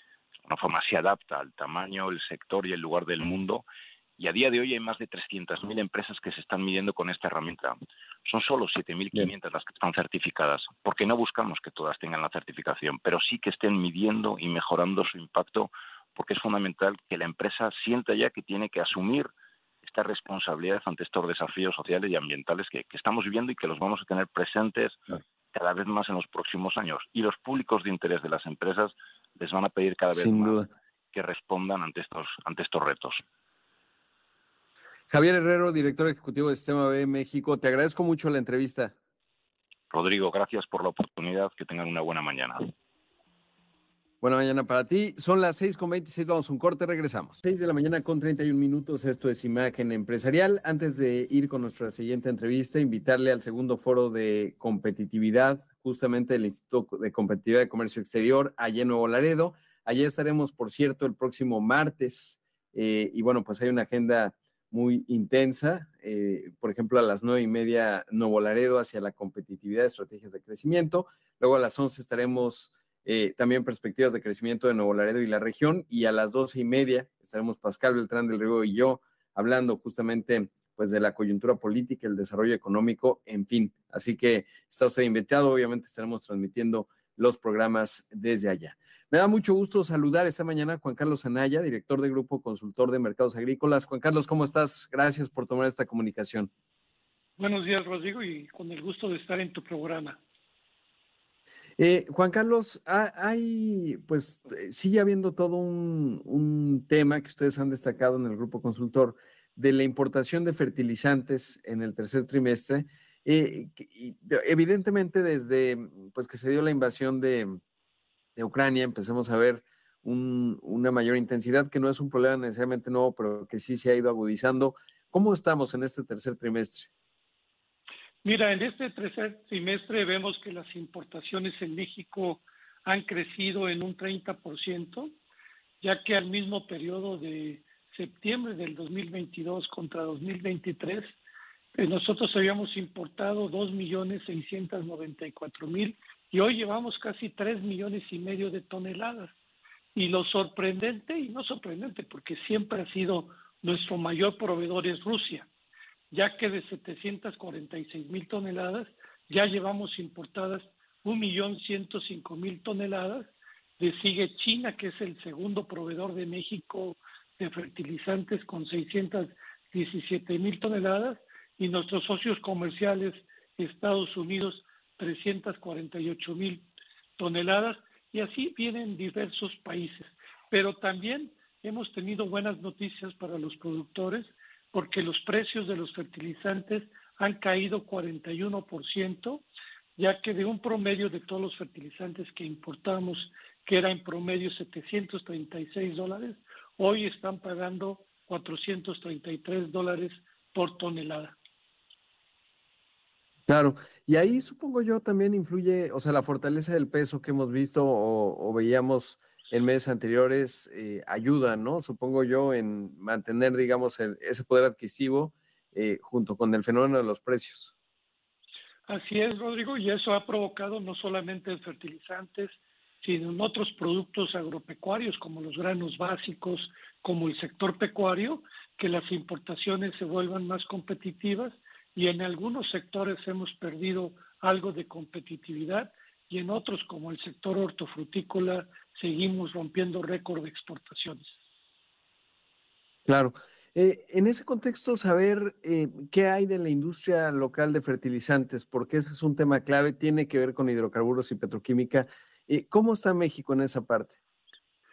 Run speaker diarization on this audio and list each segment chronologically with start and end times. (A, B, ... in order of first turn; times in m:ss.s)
0:00.4-0:03.6 A
0:04.2-0:19.3 A
0:19.8-0:25.0 A
0:25.5-0:30.6 A
0:30.1-0:30.7 B
0:31.1-0:33.2 A
0:35.1-0:38.9 B
0:39.9-0:42.6 A
0:44.2-1:36.5 B
1:37.4-1:40.2 C
1:41.8-1:57.6 B
1:58.4-2:06.9 B
2:08.2-2:15.1 C
2:15.8-2:21.1 C
2:21.8-2:29.3 C
2:30.0-2:35.5 C
2:36.1-2:56.6 C
2:57.2-3:09.4 C
3:10.0-3:21.4 C
3:23.5-3:37.7 B
3:38.9-4:01.3 C
4:03.1-4:14.2 B